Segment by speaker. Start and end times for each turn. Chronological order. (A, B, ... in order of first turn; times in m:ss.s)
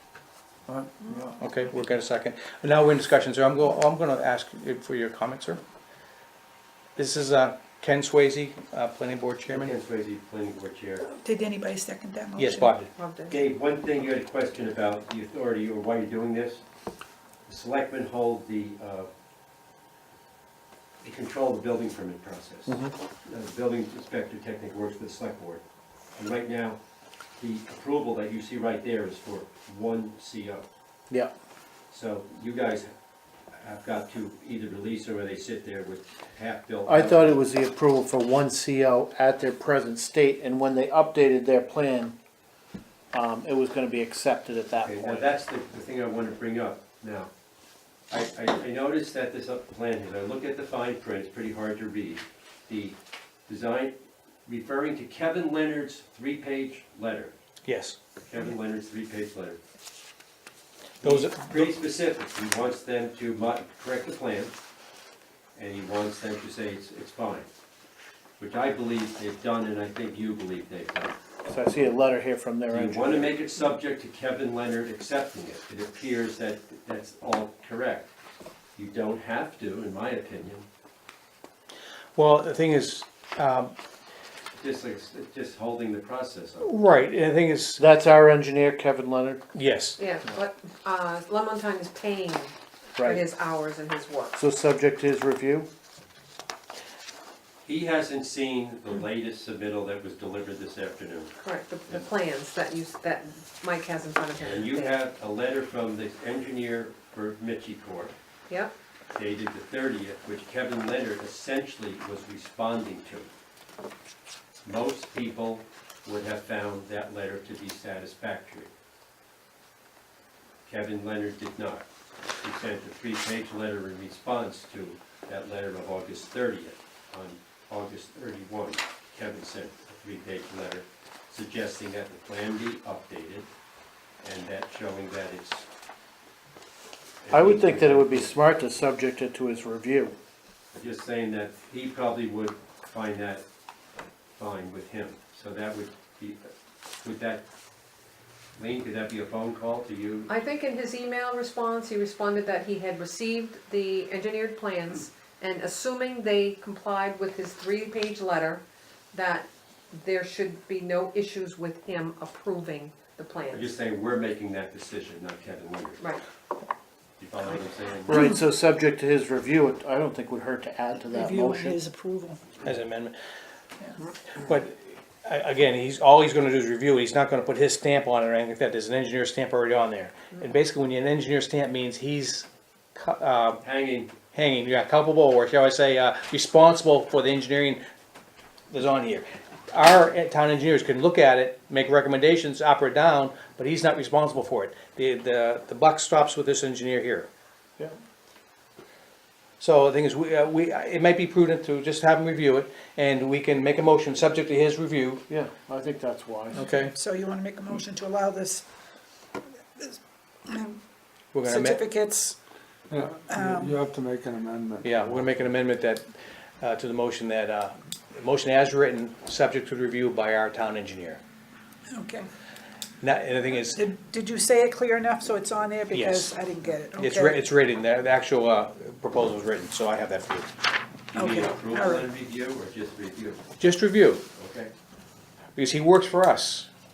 0:01.4-0:05.6 A
0:07.0-0:09.7 A
0:09.5-0:11.0 B
0:11.0-0:12.8 C
0:12.4-0:12.9 A
0:13.0-0:13.4 D
0:13.3-0:16.6 B
0:17.5-0:19.1 B
0:21.0-0:25.6 B
0:22.7-0:22.9 E
0:26.2-0:26.8 B
0:27.4-0:30.7 B
0:31.9-0:32.9 B
0:33.5-0:37.4 B
0:36.8-0:42.2 E
0:43.1-0:45.3 E
0:44.8-0:47.3 B
0:48.1-0:53.0 B
0:53.5-0:57.3 B
0:57.6-0:58.0 A
0:58.2-0:59.6 B
1:01.0-1:01.8 A
1:01.0-1:04.5 B
1:05.6-1:07.5 B
1:08.4-1:11.2 B
1:11.4-1:13.4 E
1:12.7-1:18.1 B
1:18.8-1:20.7 B
1:22.2-1:23.7 A
1:24.6-1:26.7 B
1:26.6-1:27.8 A
1:27.8-1:29.4 E
1:29.5-1:30.0 A
1:30.0-1:34.4 D
1:33.0-1:33.3 E
1:34.3-1:35.7 E
1:37.6-1:41.4 B
1:41.4-1:45.0 D
1:44.4-1:48.1 B
1:48.5-1:48.7 D
1:49.1-1:53.3 B
1:54.6-1:58.7 B
2:00.7-2:01.8 B
2:02.4-2:13.5 B
2:14.2-2:15.7 B
2:17.2-2:18.3 B
2:17.3-2:20.2 E
2:20.7-2:23.4 B
2:24.4-2:26.5 B
2:27.0-2:27.4 B
2:28.6-2:30.3 B
2:30.3-2:43.7 D
2:43.5-2:46.0 B
2:47.2-2:48.2 B
2:48.0-2:51.8 E
2:51.1-2:52.4 C
2:52.6-2:53.1 A
2:54.3-3:03.6 A
3:03.6-3:04.1 B
3:04.3-3:07.8 A
3:08.7-3:17.3 A
3:19.6-3:25.2 A
3:25.3-3:26.7 E
3:26.5-3:26.9 A
3:26.9-3:28.6 C
3:29.8-3:30.8 C
3:31.3-3:31.8 A
3:31.4-3:32.4 C
3:32.9-3:35.4 F
3:33.3-3:33.8 C
3:34.8-3:36.1 A
3:36.6-3:41.2 A
3:41.9-3:42.2 C
3:43.0-3:43.8 A
3:43.7-3:47.4 C
3:45.9-3:46.3 A
3:47.0-3:50.5 A
3:51.1-3:52.1 C
3:51.1-3:53.4 B
3:53.6-3:54.2 A
3:54.4-3:54.7 B
3:55.6-3:56.7 A